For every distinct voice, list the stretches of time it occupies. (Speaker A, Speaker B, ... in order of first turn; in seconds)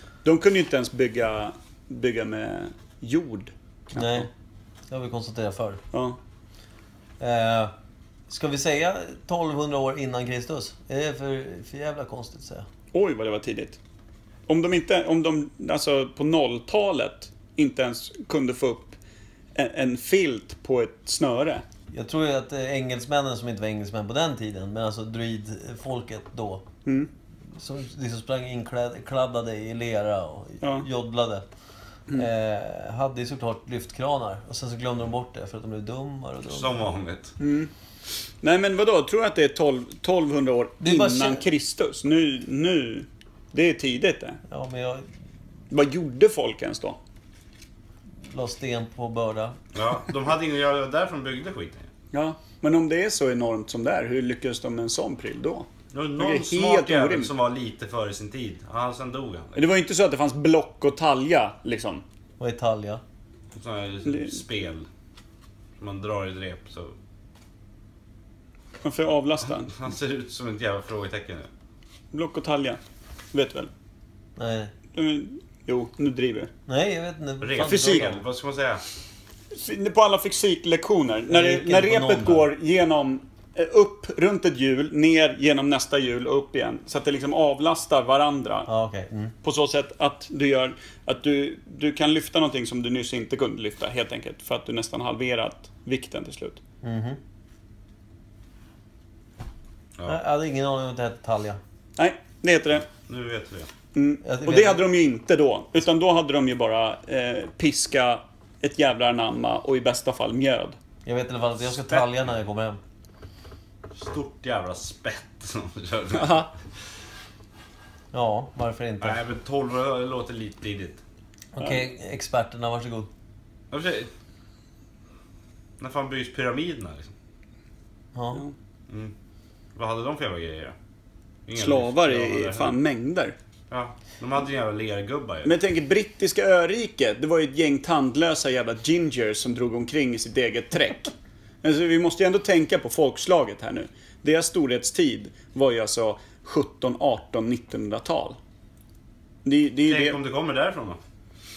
Speaker A: 0.2-4.3, 5.9-6.2, 12.9-13.8, 14.5-19.0, 19.5-21.6, 26.8-27.1, 30.6-30.9, 37.4-37.7, 38.4-44.4, 45.7-47.0, 52.1-57.3, 59.5-62.0, 64.0-64.4, 68.8-69.7, 72.1-72.8, 73.3-73.7, 74.9-76.5, 77.6-78.2, 79.5-88.7, 89.4-96.6, 102.0-102.9, 103.9-110.8, 116.1-116.5, 131.5-133.3, 135.4-148.4, 149.4-150.2
Speaker B: 3.9-4.3, 4.9-5.8, 7.2-7.7, 8.3-12.7, 21.9-26.6, 27.6-31.4, 32.1-36.9, 40.8-41.4, 44.5-45.0, 48.3-49.6, 62.4-63.0, 74.4-74.7, 76.7-78.2, 81.3-82.5, 88.7-89.3, 96.8-97.2, 100.0-101.6, 104.2-104.8, 111.0-112.8, 118.1-119.2, 121.5-123.1, 128.1-128.4
Speaker C: 36.5-37.3, 49.7-51.9, 55.9-59.6, 63.5-64.9, 65.8-66.9, 69.7-71.5, 77.4-78.8, 102.9-103.7, 114.0-116.5, 119.0-121.0, 123.7-124.1, 125.8-127.1, 129.7-130.7, 131.5-132.8, 133.7-135.5, 149.8-151.0